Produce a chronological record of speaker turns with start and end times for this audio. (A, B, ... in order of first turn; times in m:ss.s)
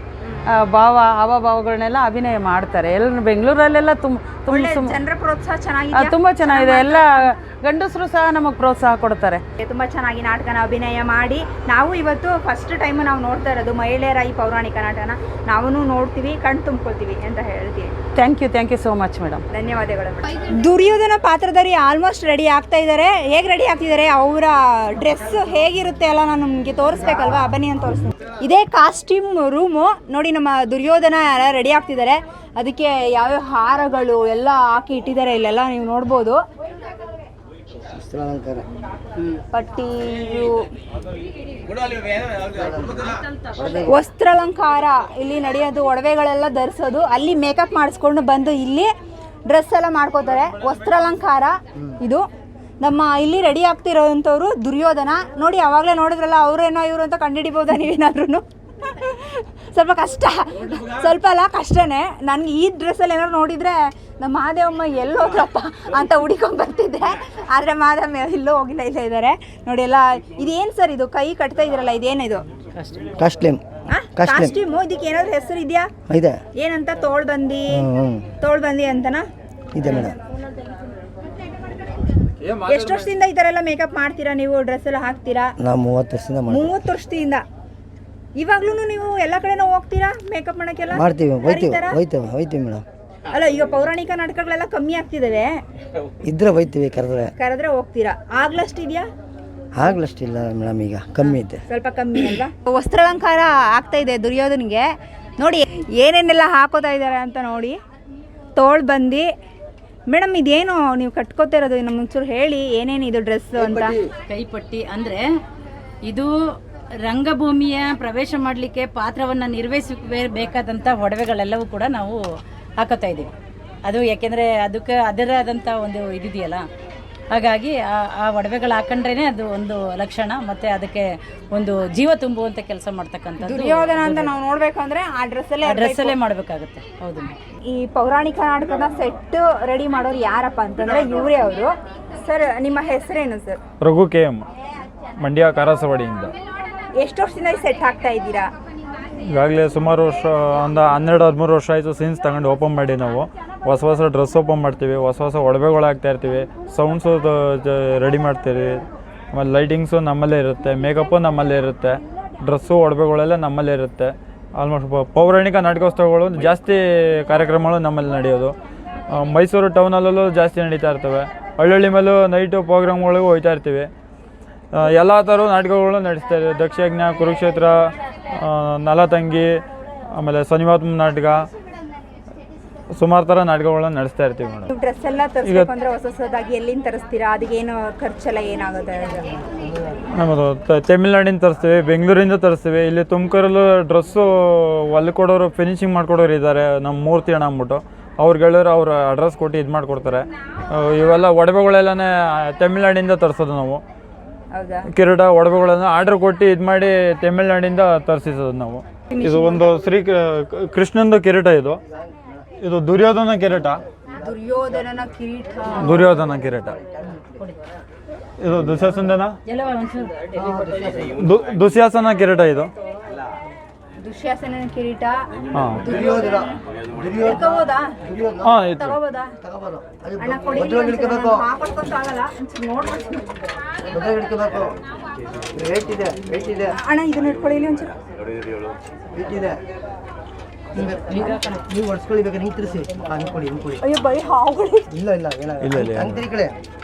0:00.6-0:05.0 A
0:04.5-0:07.3 B
0:05.9-0:09.4 A
0:09.6-0:17.9 B
0:18.2-0:19.4 A
0:19.5-0:36.4 B
0:37.9-0:38.6 C
0:39.5-0:40.6 B
0:42.5-0:43.9 C
0:43.8-0:48.9 B
0:49.5-0:52.2 B
0:52.8-1:12.4 B
1:12.8-1:13.1 D
1:13.2-1:13.6 C
1:13.9-1:15.9 B
1:14.2-1:14.5 C
1:16.1-1:16.4 C
1:16.6-1:19.2 B
1:17.7-1:18.3 C
1:19.7-1:20.1 C
1:22.4-1:23.0 E
1:22.6-1:25.5 B
1:25.6-1:26.7 C
1:26.5-1:27.4 B
1:28.4-1:32.0 B
1:30.9-1:32.8 C
1:33.3-1:35.5 B
1:36.2-1:37.3 C
1:37.4-1:39.0 B
1:39.8-1:41.6 C
1:41.2-1:44.9 B
1:45.4-1:47.8 B
1:48.6-1:49.3 B
1:50.1-1:54.0 B
1:54.3-1:55.2 D
1:56.0-1:56.3 D
1:57.0-2:02.2 D
2:02.8-2:03.3 D
2:03.8-2:06.6 D
2:07.3-2:14.3 D
2:13.4-2:16.1 B
2:15.6-2:17.3 D
2:17.7-2:23.6 B
2:23.8-2:24.4 E
2:25.2-2:26.3 E
2:27.0-2:28.5 B
2:29.2-2:48.5 E
2:49.1-2:53.9 E
2:54.7-2:59.6 E
3:00.1-3:01.5 E
3:02.9-3:04.7 E
3:04.7-3:09.3 B
3:05.4-3:05.7 E
3:10.1-3:23.8 E
3:24.5-3:24.8 B
3:24.9-3:31.8 E
3:29.1-3:29.7 B
3:32.6-3:33.8 E
3:34.2-3:36.2 B
3:35.8-3:36.8 E
3:38.4-3:39.4 E
3:39.4-3:40.1 D
3:40.3-3:41.1 C
3:41.1-3:42.7 E
3:44.0-3:45.2 B
3:45.5-3:45.9 E
3:45.8-3:46.4 B
3:46.0-3:47.5 C
3:47.2-3:48.0 B
3:48.0-3:48.5 C
3:48.4-3:49.0 E
3:48.7-3:49.3 B
3:49.4-3:51.4 C
3:50.2-3:53.3 B
3:53.9-3:54.8 C
3:55.5-3:56.7 C
3:56.7-3:58.0 B
3:59.1-3:59.6 C
4:00.8-4:03.8 C
4:00.8-4:01.6 D
4:03.8-4:04.9 B
4:04.9-4:06.6 C
4:05.6-4:06.3 E